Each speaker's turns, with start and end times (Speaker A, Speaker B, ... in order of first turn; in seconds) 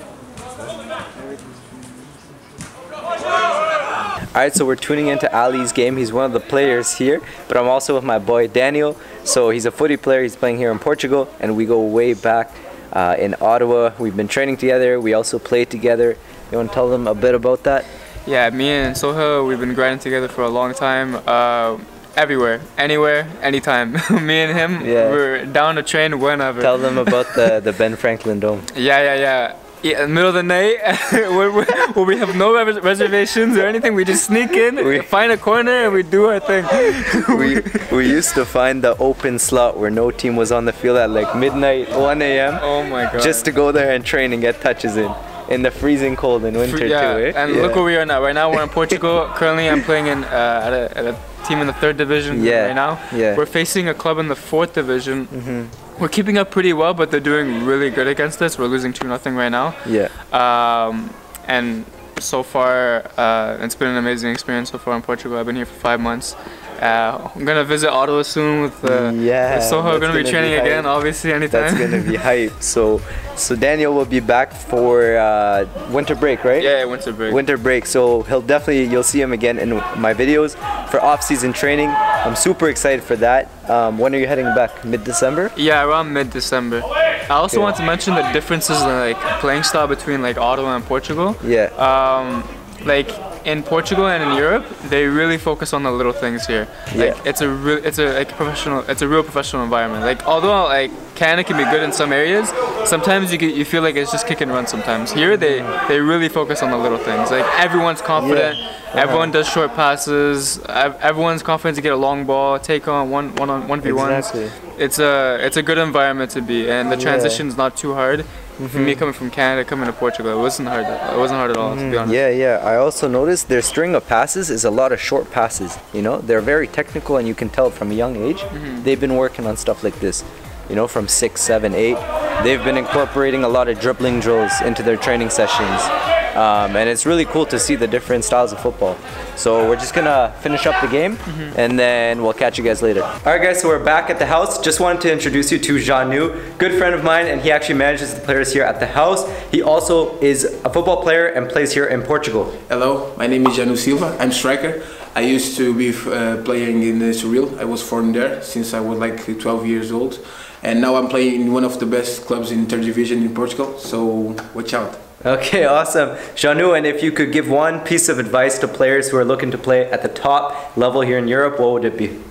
Speaker A: 4.3-17.9, 24.8-25.2, 26.6-28.7, 34.8-35.1, 37.1-47.9, 52.3-53.4, 55.3-55.7, 59.9-60.1, 68.8-70.9, 71.5-76.8, 77.3-85.5, 87.5-87.8, 91.4-91.7, 96.9-97.2, 105.3-105.7, 108.2-109.3, 113.8-114.5, 116.9-117.4, 118.6-119.0, 121.6-152.6, 165.2-172.2
Speaker B: 18.3-27.6, 28.7-37.9, 42.6-43.5, 46.6-55.3, 56.0-72.2, 76.6-77.4, 85.5-122.2, 128.5-128.9, 141.3-141.5
Speaker C: 152.7-165.0